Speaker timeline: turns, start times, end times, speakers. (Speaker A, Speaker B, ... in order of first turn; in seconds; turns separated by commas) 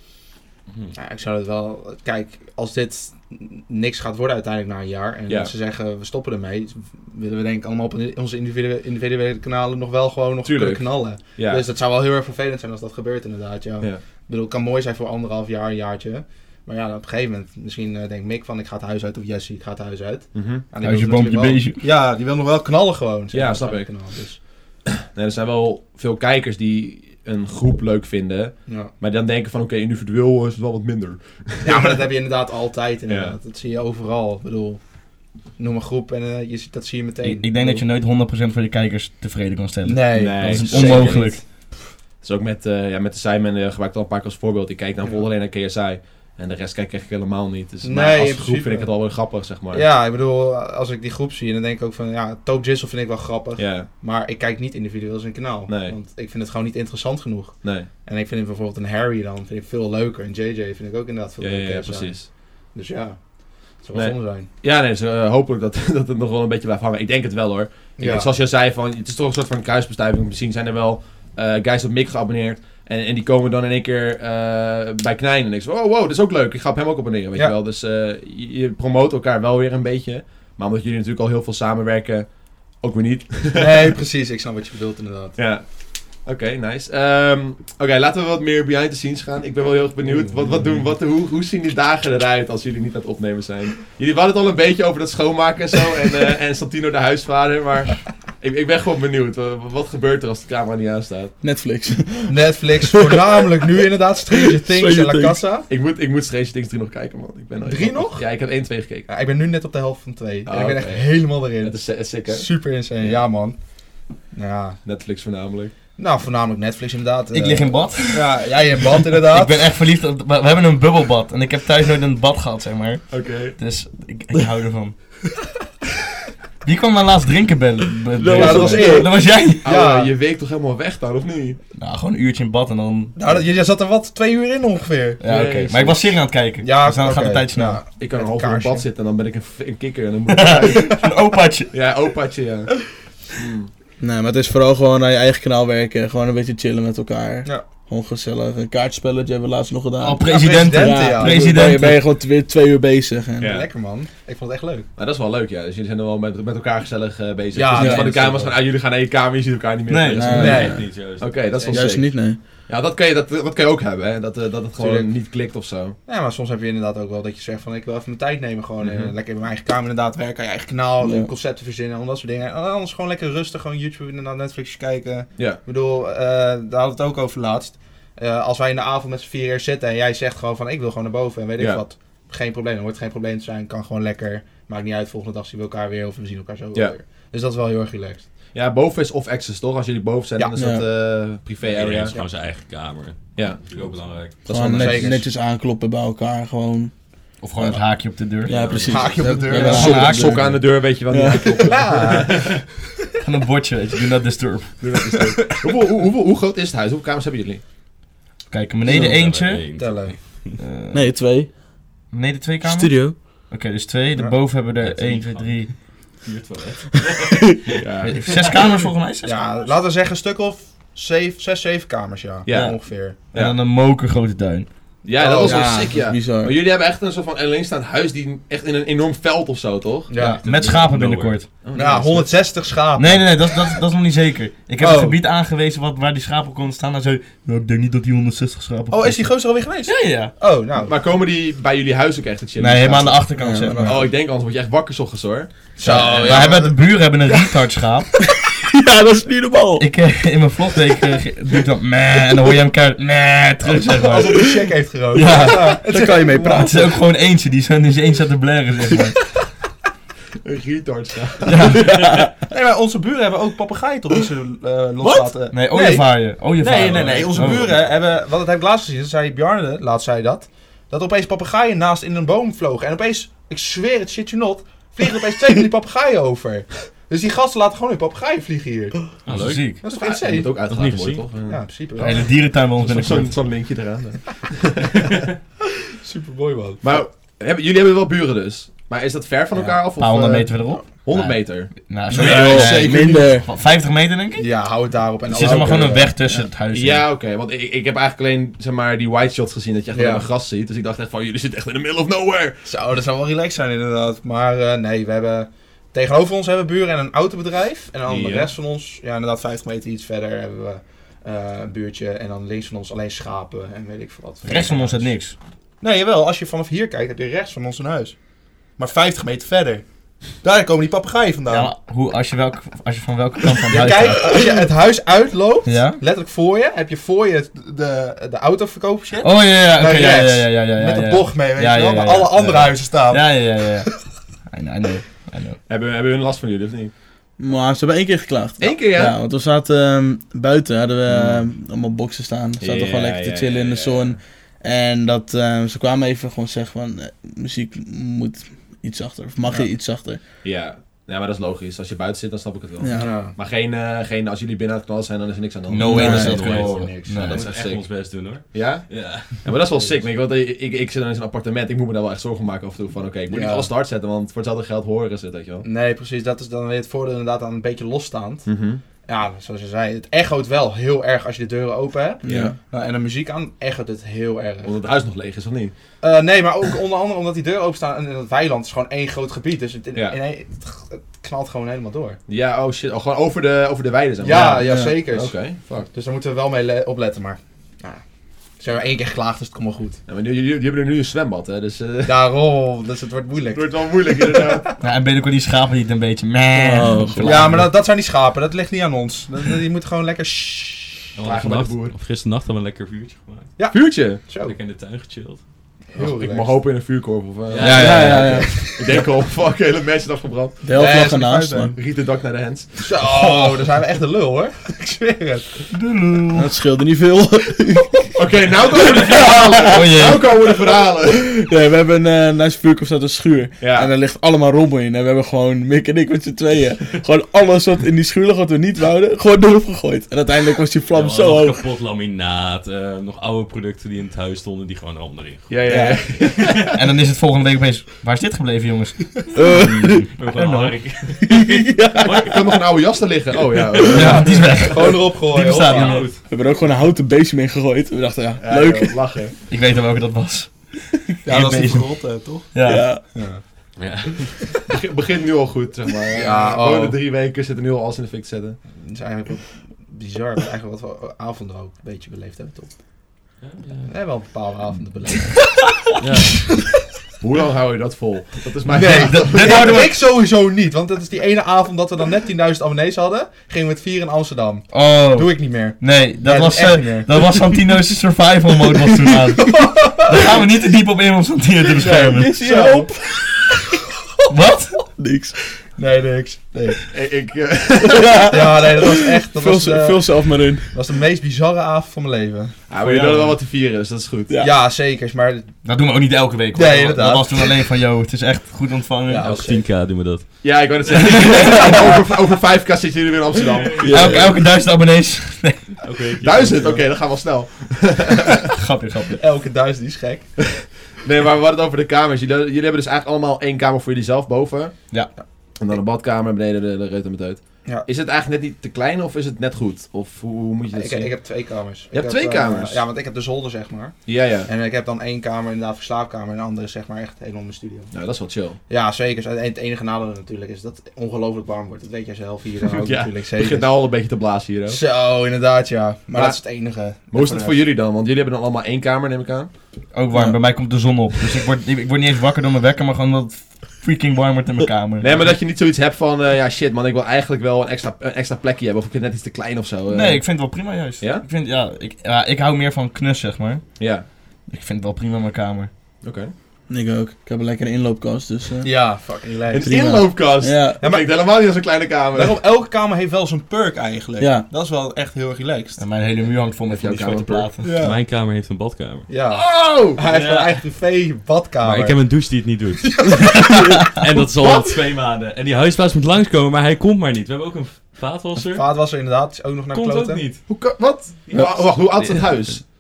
Speaker A: 0.7-0.9, Speaker B: 0.9-24.4, Speaker C: 10.4-11.7, Speaker C: 20.4-20.6, Speaker D: 20.8-21.8, Speaker C: 23.3-23.9, Speaker C: 25.1-32.1, Speaker B: 28.7-28.9, Speaker B: 31.6-34.8, Speaker C: 33.1-33.4, Speaker B: 35.6-37.8, Speaker D: 37.2-41.4, Speaker B: 39.9-41.4, Speaker C: 40.1-41.5, Speaker C: 42.2-49.9, Speaker B: 47.8-49.0, Speaker B: 49.7-64.5, Speaker C: 53.6-53.9, Speaker C: 55.7-56.0, Speaker C: 57.6-57.9, Speaker C: 61.4-62.3, Speaker C: 63.9-84.0, Speaker B: 68.0-68.3, Speaker B: 83.5-85.4, Speaker C: 85.4-101.3, Speaker B: 90.1-90.5, Speaker E: 101.4-103.3, Speaker B: 102.3-105.7, Speaker E: 104.3-105.4, Speaker C: 105.7-109.1, Speaker B: 107.7-108.5, Speaker B: 109.1-113.6, Speaker C: 110.5-113.2, Speaker B: 114.3-114.8, Speaker C: 114.8-115.7, Speaker B: 116.0-119.7, Speaker D: 117.3-125.2, Speaker C: 123.1-123.6, Speaker D: 126.6-129.7, Speaker E: 128.2-129.2, Speaker B: 128.3-130.1, Speaker C: 128.5-131.6, Speaker D: 131.8-133.2, Speaker B: 133.2-135.2, Speaker D: 135.2-137.9, Speaker C: 135.2-136.2, Speaker B: 136.6-138.9, Speaker C: 138.0-141.0, Speaker D: 140.3-141.7, Speaker C: 141.7-143.7, Speaker E: 144.0-153.6, Speaker D: 150.0-152.0, Speaker B: 150.2-151.7, Speaker C: 153.4-153.7, Speaker B: 153.4-154.9, Speaker C: 155.0-166.0, Speaker B: 157.5-158.6, Speaker E: 157.8-158.1, Speaker D: 159.9-160.6, Speaker E: 160.1-160.9, Speaker A: 160.3-161.4, Speaker B: 160.4-160.8, Speaker B: 161.6-161.9, Speaker E: 161.6-162.4, Speaker B: 164.8-165.1, Speaker B: 166.1-188.3, Speaker C: 168.8-169.1, Speaker E: 171.0-171.3, Speaker C: 175.4-175.6, Speaker C: 181.6-181.8, Speaker C: 188.5-192.2, Speaker E: 190.6-190.8, Speaker A: 191.6-194.3, Speaker C: 193.4-195.2, Speaker E: 194.5-196.9, Speaker B: 194.6-195.2, Speaker D: 197.4-200.6, Speaker E: 197.5-201.9, Speaker A: 198.4-199.4, Speaker B: 198.9-200.0, Speaker C: 199.2-202.5, Speaker B: 201.6-202.8, Speaker D: 203.2-205.0, Speaker C: 204.8-207.6, Speaker D: 208.5-209.7, Speaker A: 208.8-210.6, Speaker E: 208.9-209.2, Speaker B: 209.7-210.5, Speaker D: 210.6-211.1, Speaker E: 210.9-211.5, Speaker D: 212.1-215.8, Speaker E: 212.6-213.2, Speaker B: 214.2-214.4, Speaker A: 214.8-218.6, Speaker C: 217.8-218.2, Speaker D: 218.1-219.6, Speaker B: 219.2-223.3, Speaker C: 222.5-223.6, Speaker D: 222.5-222.8, Speaker D: 223.3-224.7, Speaker C: 225.0-230.1, Speaker B: 225.2-225.9, Speaker E: 225.4-226.6, Speaker B: 230.1-230.4, Speaker D: 230.2-231.6, Speaker A: 230.4-231.4, Speaker C: 231.6-232.5, Speaker B: 231.7-233.8, Speaker D: 233.0-240.3, Speaker B: 234.8-235.2, Speaker B: 238.9-240.9, Speaker C: 240.8-246.5, Speaker D: 242.6-244.0, Speaker E: 243.4-244.1, Speaker B: 245.8-247.4, Speaker D: 245.8-248.1, Speaker E: 248.3-249.9, Speaker D: 249.8-254.6, Speaker B: 253.7-257.0, Speaker D: 255.1-255.9, Speaker E: 255.2-257.0, Speaker D: 256.6-259.2, Speaker C: 260.4-261.8, Speaker D: 261.5-262.3, Speaker E: 261.8-262.3, Speaker B: 262.4-279.1, Speaker D: 265.5-267.7, Speaker A: 279.2-279.7, Speaker D: 279.3-279.8, Speaker B: 279.8-280.5, Speaker C: 279.9-281.6, Speaker A: 280.7-281.3, Speaker B: 281.5-282.3, Speaker D: 282.0-283.6, Speaker C: 282.7-285.2, Speaker B: 286.0-286.9, Speaker C: 286.8-293.4, Speaker B: 289.5-289.9, Speaker D: 290.0-294.6, Speaker E: 292.1-293.5, Speaker B: 294.4-296.2, Speaker D: 295.3-297.0, Speaker C: 296.7-302.7, Speaker B: 299.9-300.3, Speaker B: 302.6-315.1, Speaker C: 308.1-308.5, Speaker D: 314.4-315.4, Speaker B: 315.8-318.2, Speaker B: 318.8-321.7, Speaker D: 321.5-324.5, Speaker B: 323.6-334.1, Speaker D: 325.7-326.0, Speaker D: 329.2-333.9, Speaker D: 334.5-335.6, Speaker C: 335.7-336.9, Speaker E: 337.4-350.2, Speaker C: 338.6-339.2, Speaker C: 341.1-341.5, Speaker C: 342.6-344.2, Speaker B: 349.5-349.7, Speaker C: 350.4-356.5, Speaker E: 352.8-353.1, Speaker B: 352.9-353.3, Speaker D: 355.7-357.5, Speaker E: 355.8-356.4, Speaker A: 355.9-359.5, Speaker B: 356.0-357.2, Speaker C: 357.2-365.7, Speaker B: 359.8-360.0, Speaker B: 363.3-363.7, Speaker B: 365.6-368.5, Speaker C: 368.5-368.8, Speaker B: 369.0-374.8, Speaker E: 372.2-372.6, Speaker C: 372.3-372.6, Speaker C: 374.6-375.7, Speaker B: 376.0-382.2, Speaker C: 382.3-385.9, Speaker B: 384.2-388.0, Speaker E: 384.3-385.0, Speaker B: 388.6-390.0, Speaker C: 390.1-392.3, Speaker B: 392.1-394.8, Speaker C: 393.5-394.7, Speaker D: 394.8-397.8, Speaker E: 396.6-397.6, Speaker B: 397.2-401.1, Speaker A: 401.1-403.6, Speaker C: 401.2-401.9, Speaker B: 403.6-404.6, Speaker C: 403.7-404.2, Speaker A: 404.4-405.4, Speaker B: 405.9-406.6, Speaker C: 405.9-411.0, Speaker A: 407.5-408.5, Speaker E: 407.6-409.0, Speaker D: 407.8-408.5, Speaker E: 410.6-411.8, Speaker B: 410.7-411.8, Speaker C: 411.7-413.6, Speaker B: 412.8-415.7, Speaker D: 415.7-416.5, Speaker E: 416.3-418.2, Speaker C: 418.1-421.3, Speaker E: 419.0-419.9, Speaker D: 419.7-420.3, Speaker E: 421.1-431.7, Speaker C: 423.6-423.9, Speaker A: 430.9-435.5, Speaker C: 435.5-436.7, Speaker E: 435.7-436.3, Speaker D: 436.7-441.2, Speaker E: 439.3-440.1, Speaker A: 439.6-442.3, Speaker E: 441.3-442.4, Speaker C: 442.0-444.7, Speaker D: 443.9-446.1, Speaker B: 443.9-446.1, Speaker A: 445.6-446.2, Speaker E: 446.2-449.2, Speaker C: 448.4-449.3, Speaker D: 449.5-453.1, Speaker B: 451.2-453.4, Speaker E: 452.6-453.0, Speaker A: 453.8-454.4, Speaker C: 454.7-458.6, Speaker B: 456.1-457.0, Speaker B: 458.8-462.8, Speaker A: 463.4-463.9, Speaker B: 463.9-465.7, Speaker A: 466.0-466.7, Speaker C: 467.2-469.8, Speaker B: 468.7-477.4, Speaker D: 468.9-470.1, Speaker D: 474.7-482.4, Speaker B: 479.4-480.3, Speaker B: 481.8-482.9, Speaker E: 481.8-483.6, Speaker D: 484.3-484.9, Speaker E: 484.8-485.4, Speaker B: 485.8-486.9, Speaker C: 486.9-488.3, Speaker E: 487.9-490.8, Speaker B: 488.3-492.6, Speaker C: 492.7-494.4, Speaker E: 494.3-494.5, Speaker B: 494.4-495.6, Speaker D: 495.6-499.3, Speaker B: 496.5-497.6, Speaker B: 499.1-499.7, Speaker A: 499.2-500.7, Speaker C: 500.4-503.9, Speaker A: 503.8-504.1, Speaker E: 503.8-504.4, Speaker D: 503.9-505.8, Speaker A: 505.8-506.8, Speaker C: 506.2-508.4, Speaker B: 506.6-506.8, Speaker D: 508.5-509.2, Speaker B: 509.2-510.4, Speaker C: 510.9-521.2, Speaker B: 520.7-527.9, Speaker C: 521.9-522.8, Speaker C: 524.1-524.5, Speaker C: 527.9-528.6, Speaker B: 528.7-533.7, Speaker C: 532.7-534.8, Speaker B: 534.7-537.6, Speaker C: 536.1-536.4, Speaker C: 537.1-539.5, Speaker D: 539.9-545.4, Speaker E: 540.1-540.4, Speaker C: 545.0-550.5, Speaker D: 549.9-553.8, Speaker C: 551.0-551.2, Speaker C: 553.8-554.1, Speaker D: 554.5-555.7, Speaker C: 556.0-556.3, Speaker E: 556.7-558.7, Speaker B: 558.6-560.1, Speaker C: 559.5-562.4, Speaker E: 559.6-560.8, Speaker B: 560.8-561.1, Speaker B: 562.1-565.8, Speaker E: 564.2-564.5, Speaker D: 565.8-567.7, Speaker C: 566.7-567.5, Speaker B: 567.6-568.0, Speaker A: 567.8-569.1, Speaker B: 569.1-572.5, Speaker C: 569.3-570.0, Speaker A: 570.1-570.6, Speaker A: 571.6-578.7, Speaker C: 574.4-574.6, Speaker B: 578.5-580.2, Speaker A: 579.7-580.4, Speaker C: 580.5-582.6, Speaker A: 581.3-582.6